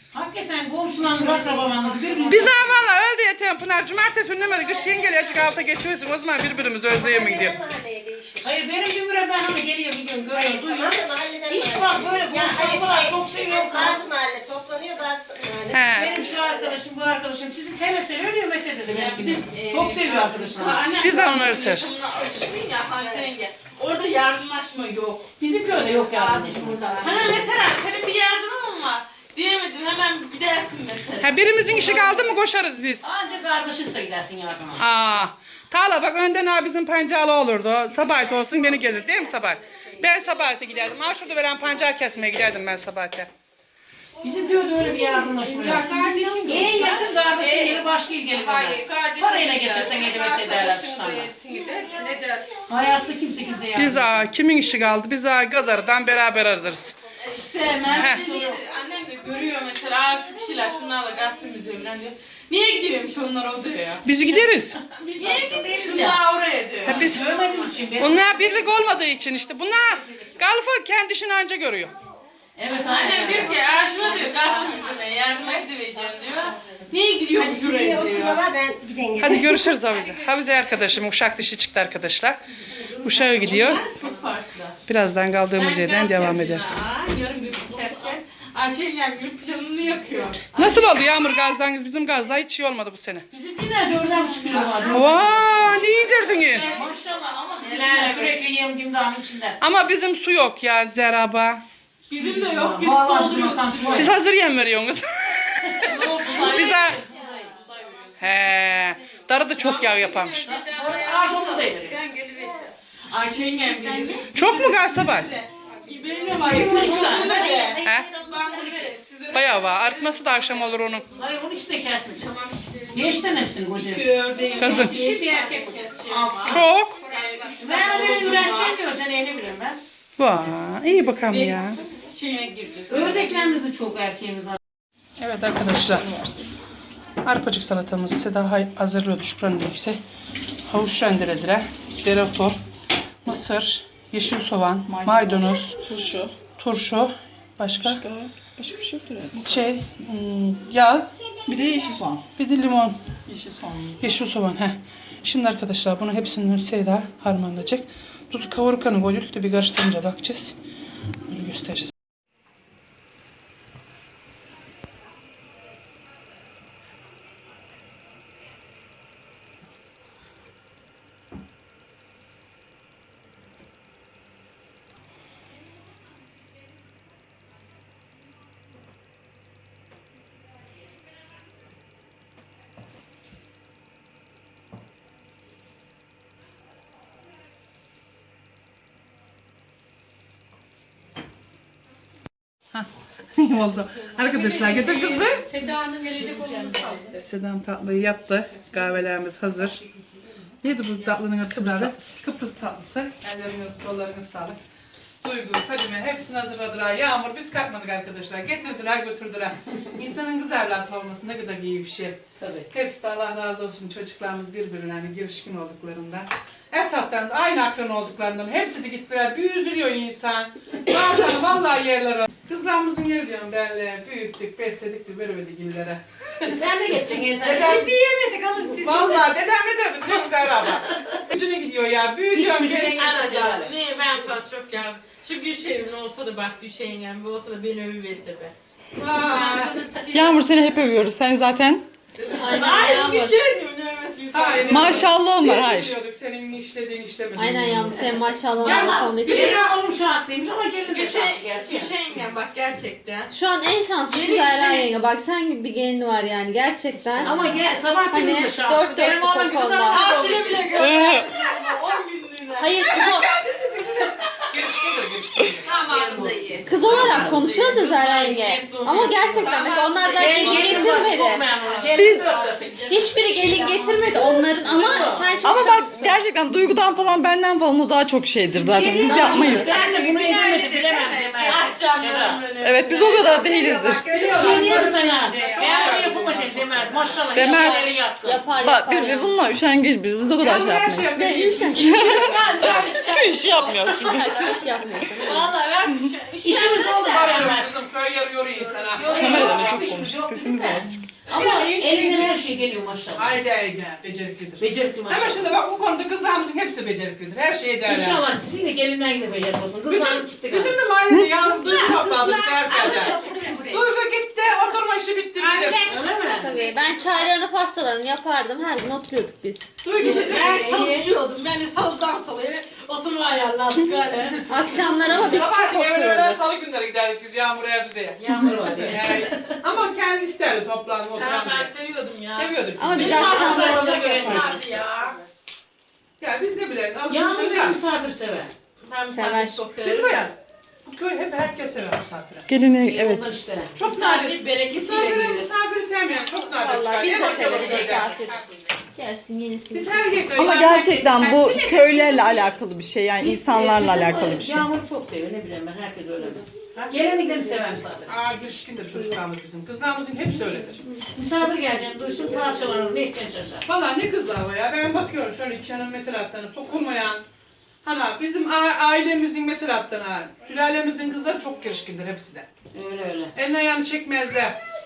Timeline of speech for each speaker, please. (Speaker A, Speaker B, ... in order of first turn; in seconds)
Speaker A: 0.1-2.8, 8.4-11.0, 11.5-14.1, 15.8-21.0, 25.4-27.4, 33.0-34.9, 44.2-51.3, 52.7-54.3, 57.7-58.6, 64.3-66.2, 66.8-68.9, 72.6-75.0, 76.1-76.8, 83.0-83.8, 85.9-86.4, 87.6-88.2, 90.5-90.8, 93.3-95.9, 96.5-99.6, 102.1-104.2, 105.7-107.6, 110.5-112.0, 116.4-117.8, 121.1-126.7, 127.6-129.8, 132.9-134.6, 195.5-197.2, 212.4-212.7, 226.4-228.0, 232.3-233.7, 242.5-243.0, 248.6-252.3, 257.2-261.0, 265.6-267.4, 270.2-275.5, 278.8-282.5, 284.3-288.5, 296.4-297.8, 299.0-303.4, 304.6-305.5, 307.9-310.8, 312.6-313.8, 315.8-316.6, 319.9-321.1, 328.2-329.6, 333.1-334.9, 337.1-338.6, 342.8-343.8, 347.2-347.9, 353.2-358.1, 361.1-363.6, 372.7-373.3
Speaker B: 1.4-2.3, 18.9-25.3, 26.1-32.4, 45.2-47.8, 57.2-64.1, 65.2-67.2, 72.7-78.4, 83.2-84.8, 85.6-90.5, 94.1-95.9, 96.4-96.9, 97.6-98.5, 102.1-104.1, 109.8-110.6, 111.2-111.6, 113.1-120.7, 123.8-128.8, 131.3-133.6, 145.9-146.3, 148.0-148.3, 194.2-197.2, 228.2-229.2, 232.8-240.4, 242.2-245.2, 248.6-249.8, 250.9-253.3, 254.1-255.0, 257.2-257.6, 259.9-264.4, 265.6-273.6, 278.6-279.9, 281.4-287.9, 291.8-297.6, 299.0-299.6, 301.3-301.7, 311.4-314.0, 315.4-316.2, 319.8-325.4, 331.1-335.2, 338.8-340.3, 343.8-345.5
Speaker C: 2.3-7.6, 15.7-16.3, 21.0-21.9, 31.2-33.1, 34.8-43.3, 53.8-57.0, 57.9-58.2, 64.0-64.8, 66.8-67.3, 68.0-71.9, 79.2-82.4, 83.0-83.8, 84.9-86.8, 90.5-93.3, 94.9-96.7, 99.6-101.7, 103.9-107.0, 108.2-110.4, 114.3-115.3, 117.8-118.1, 119.3-121.0, 124.6-125.0, 126.5-127.0, 130.2-131.8, 135.2-136.1, 137.2-140.0, 140.7-142.6, 143.2-145.8, 146.6-148.0, 149.3-151.1, 152.4-153.0, 154.0-160.6, 161.3-161.9, 192.7-195.5, 197.2-199.8, 200.6-204.6, 205.2-233.1, 239.0-239.7, 244.3-248.2, 262.9-263.3, 264.5-265.7, 284.1-285.0, 290.4-292.5, 297.0-299.9, 301.3-302.3, 303.1-308.2, 309.9-313.2, 313.7-315.9, 325.0-331.7, 332.3-333.9, 336.2-337.8, 339.8-342.5, 343.7-348.6, 349.7-352.6, 358.1-360.8, 363.6-367.2, 367.8-372.5, 373.3-374.6
Speaker D: 6.8-8.6, 10.3-16.8, 77.3-79.8
Speaker E: 26.4-27.0, 46.4-52.7, 58.1-58.5, 95.7-96.4, 107.6-108.2, 109.6-112.7, 115.8-118.9, 122.2-123.2, 126.9-127.8, 239.3-240.0, 242.4-243.3, 247.9-249.2, 254.2-255.6, 256.9-257.3, 258.2-259.9, 262.8-263.2, 266.7-271.2, 273.1-276.0, 278.6-281.7, 282.9-286.9, 294.4-295.0, 316.4-317.7, 346.9-348.3
Speaker F: 136.0-136.4, 144.9-146.3, 147.9-149.5, 151.5-152.3, 153.3-154.0, 201.6-201.9, 240.1-241.8, 244.6-245.9, 260.8-261.3, 275.4-279.7, 282.6-284.2, 287.3-287.9, 288.6-291.2, 291.7-294.6, 299.1-301.0, 342.5-343.3, 350.3-354.7
Speaker G: 242.4-243.4, 247.4-249.6, 253.3-257.3, 258.1-260.1, 262.6-263.3, 266.7-272.3, 272.9-276.2, 288.2-289.5, 291.0-292.3, 294.0-295.5, 316.4-319.7, 324.5-326.4, 332.8-334.5, 339.1-339.6, 346.5-348.4, 348.9-350.2